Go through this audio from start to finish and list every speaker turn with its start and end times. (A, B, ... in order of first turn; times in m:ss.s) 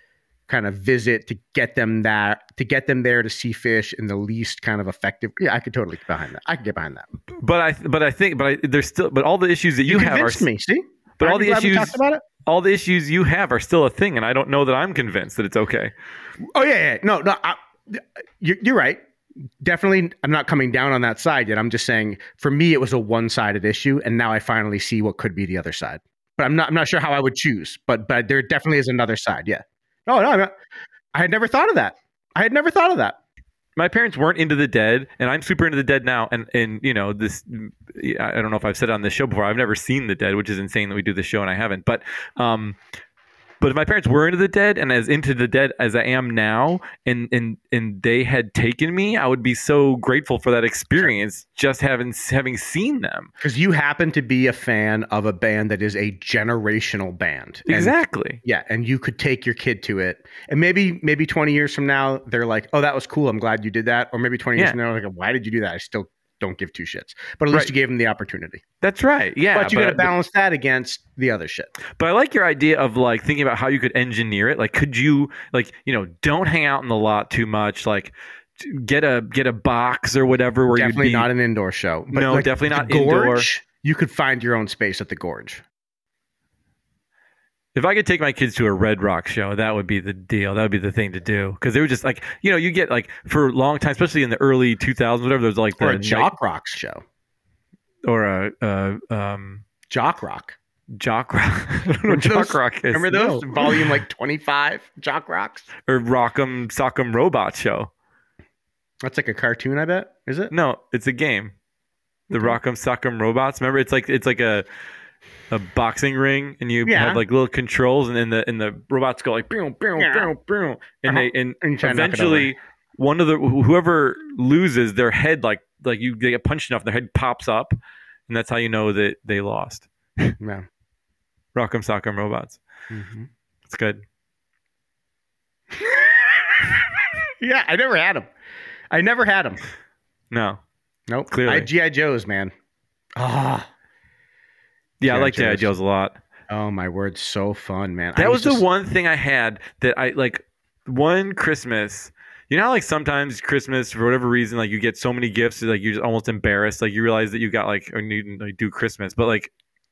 0:00.5-0:07.1 A
0:07.4-0:10.5 B
0:09.9-0:12.2 A
0:11.2-0:15.9 B
0:16.5-0:19.0 A
0:19.6-0:30.6 A
0:31.1-0:33.2 A
0:33.8-0:42.8 B
0:43.6-0:53.3 B
0:53.4-1:08.6 A
0:57.7-0:58.4 B
1:08.8-1:10.1 B
1:09.5-1:11.7 A
1:12.0-1:21.3 B
1:20.7-1:25.6 A
1:22.1-1:23.5 B
1:27.8-1:36.3 B
1:35.8-1:37.0 A
1:38.1-1:39.6 B
1:39.9-1:40.6 A
1:41.0-1:43.9 B
1:42.1-1:45.7 A
1:45.8-1:47.9 B
1:49.0-1:50.5 A
1:50.5-1:51.5 B
1:52.3-1:52.6 A
1:52.3-1:54.6 B
1:55.5-2:07.8 B
1:56.8-1:57.2 A
2:00.0-2:00.3 A
2:01.1-2:02.5 A
2:08.3-2:10.4 B
2:10.4-2:10.6 A
2:11.5-2:12.6 B
2:12.9-2:13.3 A
2:13.7-2:14.0 B
2:15.7-2:16.8 A
2:17.4-2:18.3 A
2:18.9-2:19.6 A
2:20.3-2:20.6 B
2:21.1-2:22.5 A
2:21.3-2:21.7 B
2:23.2-2:23.7 A
2:25.0-2:26.2 B
2:25.1-2:25.7 A
2:26.5-2:28.6 A
2:28.2-2:39.5 B